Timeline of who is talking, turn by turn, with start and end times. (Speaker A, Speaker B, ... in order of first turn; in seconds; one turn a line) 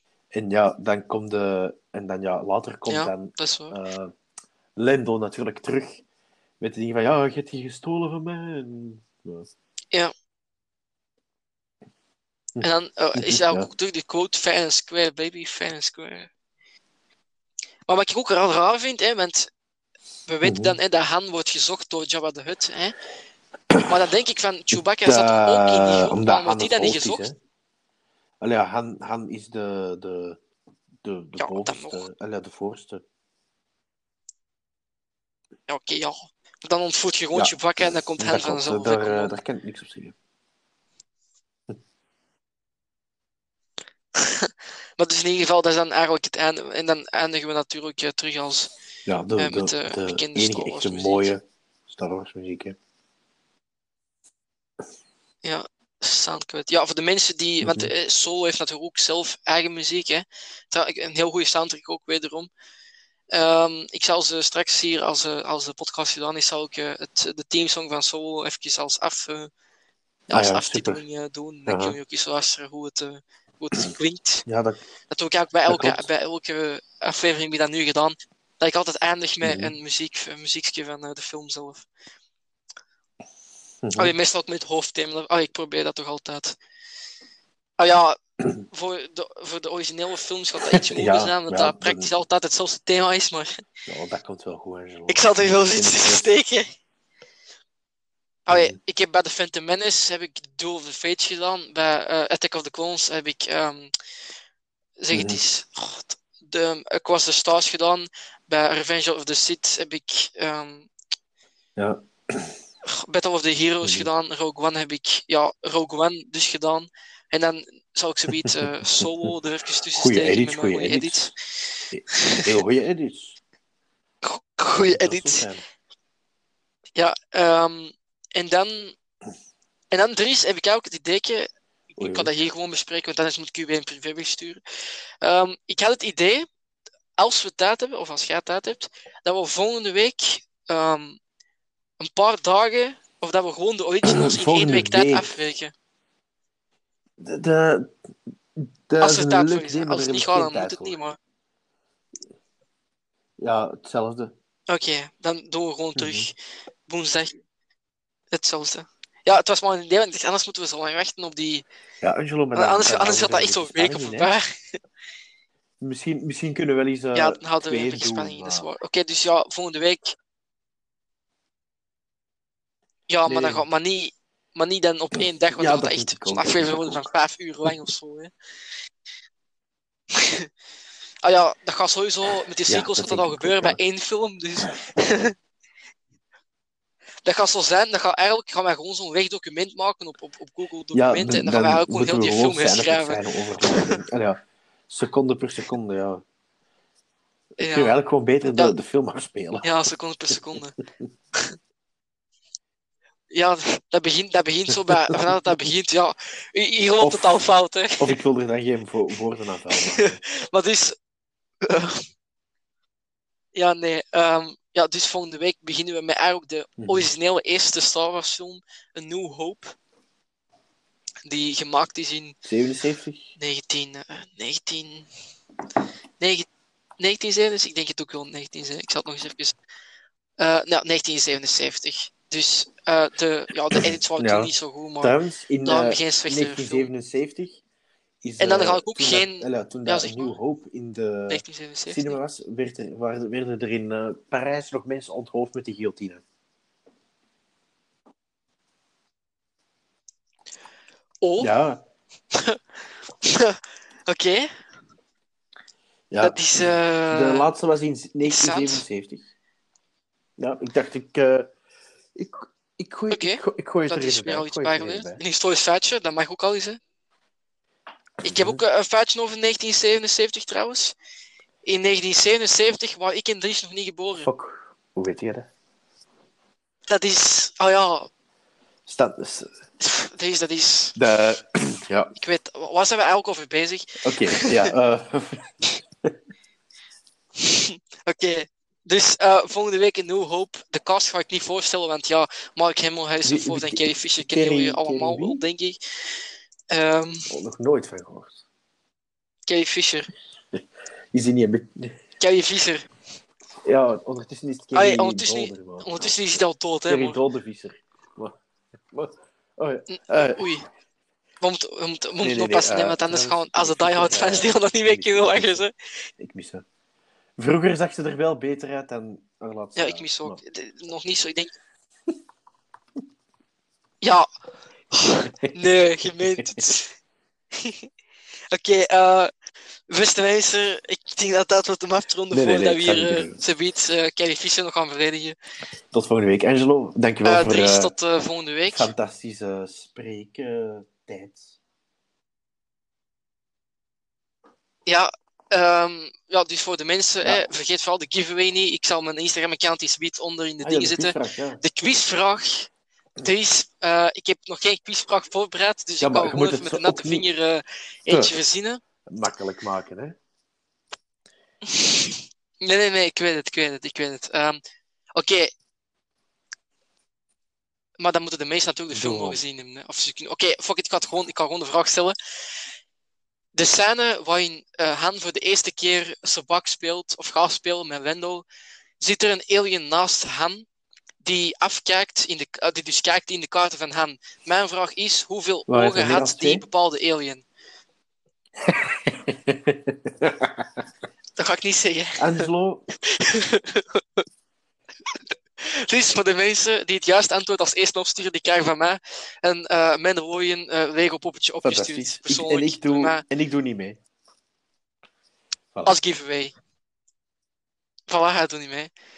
Speaker A: 0.3-4.1
Speaker B: 2.9-3.8
Speaker A: 4.8-6.0
Speaker A: 6.6-9.5
Speaker A: 12.6-13.7
Speaker B: 12.6-16.3
Speaker B: 17.9-19.5
Speaker B: 20.2-22.9
Speaker A: 20.4-20.8
Speaker B: 23.9-27.3
Speaker A: 25.0-27.3
Speaker A: 28.4-30.4
Speaker A: 31.0-33.0
Speaker B: 31.4-32.0
Speaker B: 35.7-39.4
Speaker A: 38.2-40.1
Speaker B: 44.2-48.7
Speaker A: 49.0-52.8
Speaker B: 49.4-51.3
Speaker B: 55.4-62.5
Speaker A: 57.6-57.9
Speaker B: 63.3-69.5
Speaker B: 70.3-74.5
Speaker A: 70.3-71.0
Speaker A: 71.7-72.0
Speaker A: 74.5-74.8
Speaker B: 75.1-81.8
Speaker A: 75.7-76.1
Speaker A: 79.4-79.7
Speaker A: 83.8-84.1
Speaker B: 84.0-86.5
Speaker B: 87.8-88.2
Speaker B: 88.7-93.6
Speaker A: 90.8-92.1
Speaker A: 93.8-96.2
Speaker B: 95.1-96.7
Speaker B: 98.5-103.9
Speaker A: 98.5-98.8
Speaker B: 105.0-110.9
Speaker A: 105.1-105.4
Speaker A: 111.8-112.6
Speaker B: 112.8-122.5
Speaker A: 113.8-114.1
Speaker A: 120.0-121.3
Speaker A: 121.9-123.4
Speaker B: 124.2-125.5
Speaker A: 124.7-125.6
Speaker B: 127.0-128.9
Speaker B: 129.9-136.4
Speaker A: 132.0-132.3
Speaker B: 137.2-141.2
Speaker B: 142.0-145.7
Speaker A: 144.0-145.3
Speaker A: 147.2-147.9
Speaker A: 148.6-150.9
Speaker B: 149.0-151.2
Speaker A: 153.4-154.3
Speaker B: 154.7-156.3
Speaker A: 155.9-156.3
Speaker B: 156.9-157.4
Speaker B: 158.3-161.6
Speaker A: 162.0-164.3
Speaker B: 162.5-164.5
Speaker A: 165.8-168.7
Speaker B: 167.1-170.1
Speaker B: 173.1-178.3
Speaker A: 173.3-173.6
Speaker A: 175.2-177.1
Speaker B: 180.1-180.5
Speaker B: 181.2-185.3
Speaker A: 182.7-183.8
Speaker B: 187.2-194.0
Speaker A: 190.9-196.2
Speaker B: 197.6-198.0
Speaker A: 197.7-199.7
Speaker B: 199.6-200.8
Speaker B: 203.3-208.2
Speaker A: 204.8-205.3
Speaker A: 207.0-207.4
Speaker A: 208.0-210.2
Speaker B: 209.7-210.9
Speaker B: 211.6-212.0
Speaker B: 213.5-219.7
Speaker A: 216.8-217.1
Speaker B: 221.2-222.3
Speaker A: 222.4-223.3
Speaker B: 223.4-225.1
Speaker B: 226.2-226.4
Speaker B: 227.0-229.5
Speaker B: 230.4-236.9
Speaker A: 233.8-237.6
Speaker A: 238.2-246.2
Speaker B: 238.4-240.4
Speaker B: 241.3-242.2
Speaker B: 251.2-251.5
Speaker A: 251.4-251.8
Speaker B: 252.3-252.6
Speaker B: 253.2-254.5
Speaker A: 256.1-256.4
Speaker B: 256.2-257.5
Speaker A: 257.1-259.3
Speaker B: 258.2-258.8
Speaker A: 260.4-261.5
Speaker A: 262.1-265.2
Speaker B: 263.1-266.8
Speaker A: 268.2-268.6
Speaker B: 268.2-270.9
Speaker B: 271.6-274.3
Speaker A: 274.2-275.5
Speaker B: 276.9-278.1
Speaker A: 278.9-279.5
Speaker B: 279.8-280.9
Speaker A: 280.9-282.1
Speaker B: 282.1-284.7
Speaker A: 284.0-286.1
Speaker B: 287.4-295.8
Speaker A: 293.2-295.4
Speaker B: 296.7-297.3
Speaker A: 297.3-298.4
Speaker B: 299.5-300.1
Speaker A: 300.5-302.0
Speaker B: 302.2-302.9
Speaker A: 303.6-308.4
Speaker B: 304.7-307.2
Speaker A: 308.9-310.4
Speaker B: 309.9-310.7
Speaker B: 311.4-315.7
Speaker A: 312.2-315.6
Speaker A: 316.2-316.6
Speaker A: 317.4-320.4
Speaker B: 319.8-321.5
Speaker B: 324.0-324.3
Speaker B: 324.9-326.9
Speaker A: 325.4-326.6
Speaker B: 327.6-327.9
Speaker B: 328.5-329.3
Speaker B: 329.9-335.3
Speaker A: 332.3-333.4
Speaker A: 335.9-337.9
Speaker B: 337.2-338.9
Speaker A: 338.6-341.5
Speaker B: 344.9-358.8
Speaker A: 350.6-351.6
Speaker A: 356.0-357.3
Speaker A: 358.1-358.3
Speaker A: 359.1-360.2
Speaker B: 361.7-364.6
Speaker B: 365.1-365.5
Speaker B: 368.0-372.1
Speaker A: 368.9-369.4
Speaker B: 373.5-378.4
Speaker B: 379.0-380.6
Speaker B: 381.2-387.4
Speaker A: 385.7-386.6
Speaker A: 388.6-390.7
Speaker B: 391.4-392.4
Speaker A: 392.2-392.8
Speaker B: 393.0-394.2
Speaker B: 395.6-403.2
Speaker A: 401.6-404.0
Speaker B: 405.8-406.5
Speaker B: 408.1-408.9